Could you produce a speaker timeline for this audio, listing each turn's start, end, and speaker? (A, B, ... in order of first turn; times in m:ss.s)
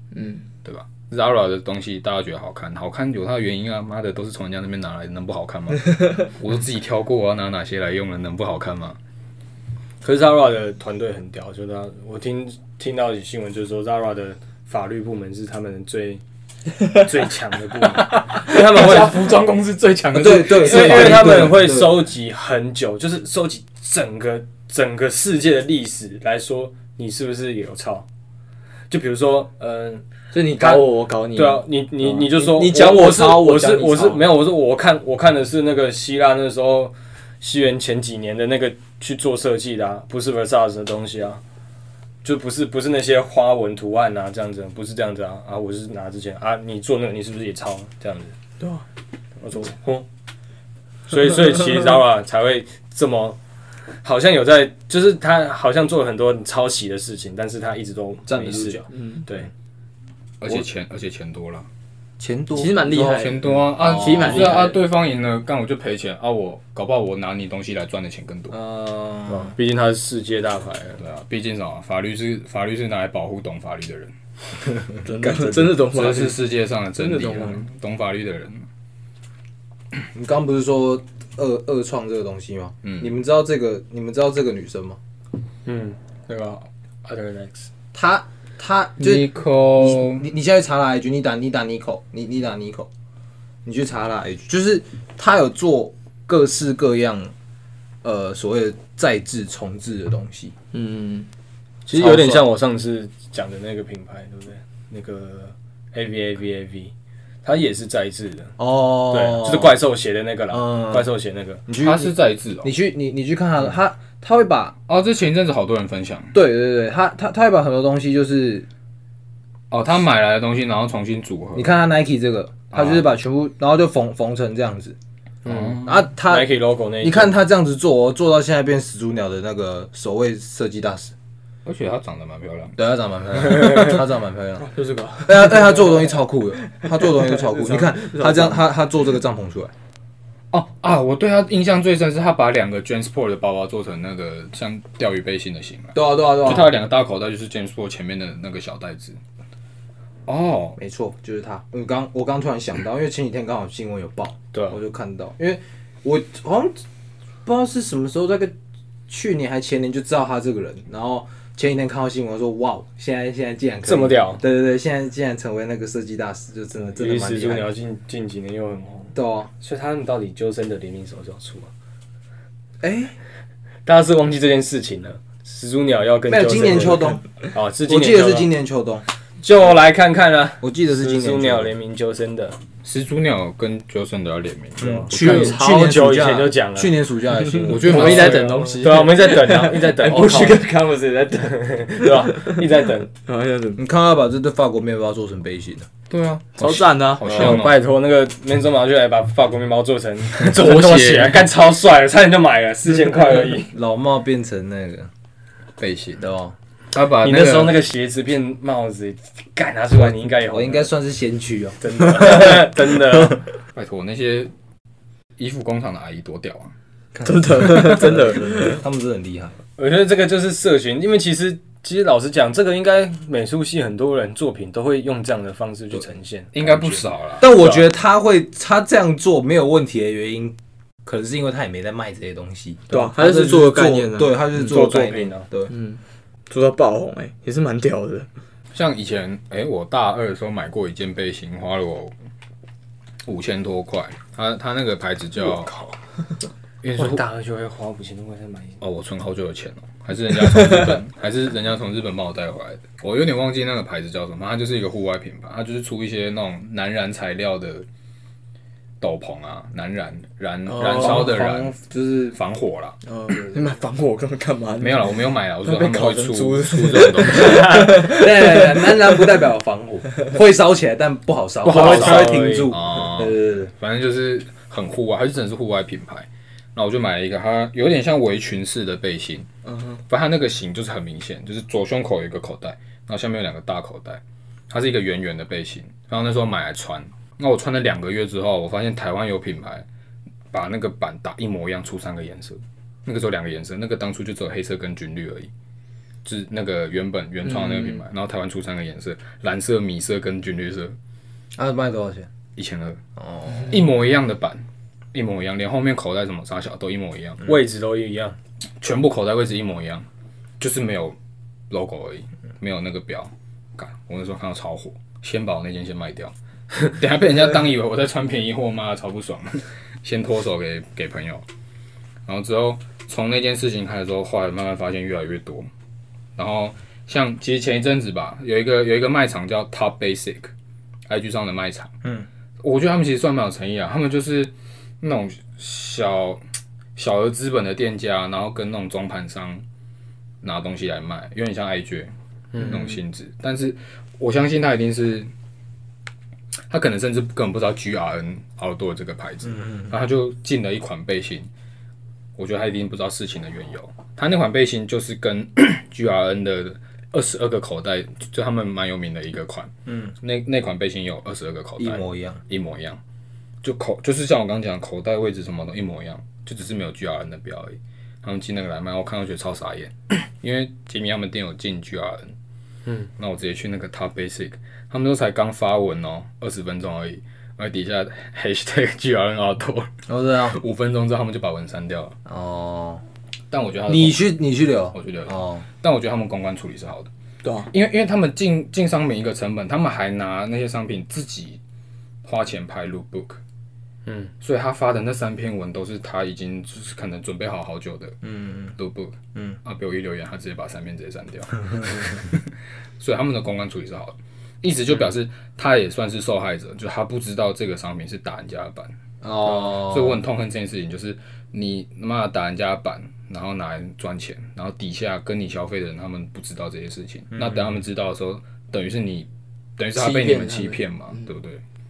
0:00.1-0:00.4 A
0:00.6-0:09.0 B
0:10.0-0:16.2 C
0:16.9-0:19.2 C
0:18.3-0:21.6 B
0:20.1-0:22.0 D
0:20.5-0:28.1 C
0:28.9-0:41.4 C
0:30.3-0:34.3 A
0:42.2-0:48.3 C
0:49.4-0:50.1 C
0:51.1-0:53.4 C
0:54.0-0:59.5 C
0:58.3-0:58.8 D
0:58.9-0:59.2 A
1:00.4-1:01.7 B
1:02.2-1:04.6 D
1:02.5-1:04.8 A
1:02.9-1:08.6 B
1:08.5-1:09.5 D
1:09.3-1:11.0 C
1:11.0-1:14.1 B
1:15.0-1:16.4 A
1:15.2-1:15.8 D
1:15.8-1:18.6 B
1:17.0-1:17.6 A
1:20.1-1:25.0 D
1:22.8-1:23.1 B
1:25.6-1:27.7 C
1:27.9-1:32.9 D
1:29.0-1:30.2 B
1:33.6-1:37.3 D
1:38.0-1:40.5 D
1:40.7-1:41.3 A
1:41.8-1:46.9 C
1:41.9-1:42.4 D
1:47.4-1:48.5 C
1:48.6-1:49.8 D
1:49.1-1:51.6 C
1:50.5-1:51.1 D
1:51.7-1:54.8 D
1:51.8-1:52.7 B
1:54.9-1:56.4 B
1:56.3-1:58.7 D
1:59.7-2:01.7 B
2:01.5-2:05.0 D
2:02.7-2:03.1 B
2:05.4-2:06.0 B
2:05.4-2:07.4 C
2:05.8-2:11.1 D
2:11.6-2:12.8 B
2:12.8-2:14.7 D
2:14.6-2:16.0 A
2:15.2-2:19.7 D
2:16.7-2:18.6 A
2:20.5-2:29.2 B
2:25.9-2:26.8 D
2:30.2-2:30.8 B
2:30.8-2:36.8 D
2:34.5-2:34.8 C
2:37.4-2:38.5 D
2:39.1-2:47.7 D
2:43.8-2:44.4 C
2:46.9-2:51.7 C
2:49.1-2:49.5 D
2:52.8-2:53.2 D
2:53.8-2:58.5 C
2:56.3-2:57.2 D
2:57.8-2:59.0 D
2:59.4-3:02.6 C
3:00.6-3:01.7 D
3:02.8-3:05.6 B
3:04.8-3:08.5 D
3:04.8-3:07.0 C
3:07.4-3:13.8 A
3:07.6-3:08.7 B
3:07.9-3:10.7 C
3:11.3-3:13.1 C
3:13.8-3:15.9 D
3:16.1-3:17.8 B
3:16.6-3:17.6 A
3:17.2-3:23.7 C
3:20.4-3:21.5 B
3:23.7-3:25.1 D
3:25.8-3:26.2 B
3:26.2-3:26.5 D
3:26.9-3:27.8 B
3:27.2-3:30.9 C
3:30.5-3:32.5 D
3:31.8-3:33.4 C
3:33.7-3:34.5 B
3:35.4-3:36.7 B
3:37.1-3:39.6 D
3:37.2-3:38.8 A
3:39.8-3:47.0 C
3:46.5-3:47.7 B
3:47.4-3:55.7 D
3:47.6-3:47.8 C
3:52.9-3:54.8 A
3:54.5-3:55.5 C
3:55.7-3:58.3 A
3:58.7-4:02.1 B
4:03.2-4:05.7 B
4:05.4-4:06.0 A
4:06.8-4:07.2 B
4:07.0-4:08.8 C
4:08.8-4:17.8 B
4:19.0-4:21.8 B
4:20.7-4:21.3 A
4:20.9-4:22.4 D
4:22.3-4:23.0 B
4:23.1-4:29.2 A
4:23.3-4:23.7 D
4:24.8-4:27.9 B
4:27.6-4:33.7 D
4:31.6-4:32.7 C
4:31.7-4:39.5 B
4:39.6-4:40.0 A
4:40.1-4:49.8 B
4:50.5-4:55.5 B
4:56.2-5:01.0 B
4:57.4-4:58.0 A
5:01.6-5:02.3 D
5:02.6-5:03.0 B
5:03.2-5:03.7 D
5:03.7-5:07.5 B
5:07.4-5:08.4 C
5:08.8-5:10.0 B
5:10.6-5:11.2 B
5:11.7-5:21.4 B
5:22.2-5:25.7 B
5:26.4-5:30.5 B
5:31.1-5:31.9 B
5:32.6-5:36.4 B
5:37.0-5:39.6 B
5:40.4-5:45.3 B
5:42.5-5:43.0 C
5:46.7-5:51.5 B
5:49.5-5:49.9 D
5:52.4-6:03.0 B
5:59.9-6:00.1 D
6:01.8-6:02.4 D
6:03.6-6:12.3 B
6:13.2-6:22.2 B
6:20.1-6:20.6 D
6:22.2-6:23.0 D
6:23.5-6:24.3 B
6:23.9-6:25.6 D
6:24.9-6:27.1 B
6:27.4-6:27.7 A
6:27.7-6:31.6 B
6:32.2-6:33.4 B
6:34.0-6:34.3 C
6:34.4-6:38.2 B
6:38.2-6:38.7 D
6:38.8-6:42.5 B
6:43.0-7:01.6 B
6:49.2-6:50.2 D
6:57.3-6:57.6 D
6:59.9-7:00.8 A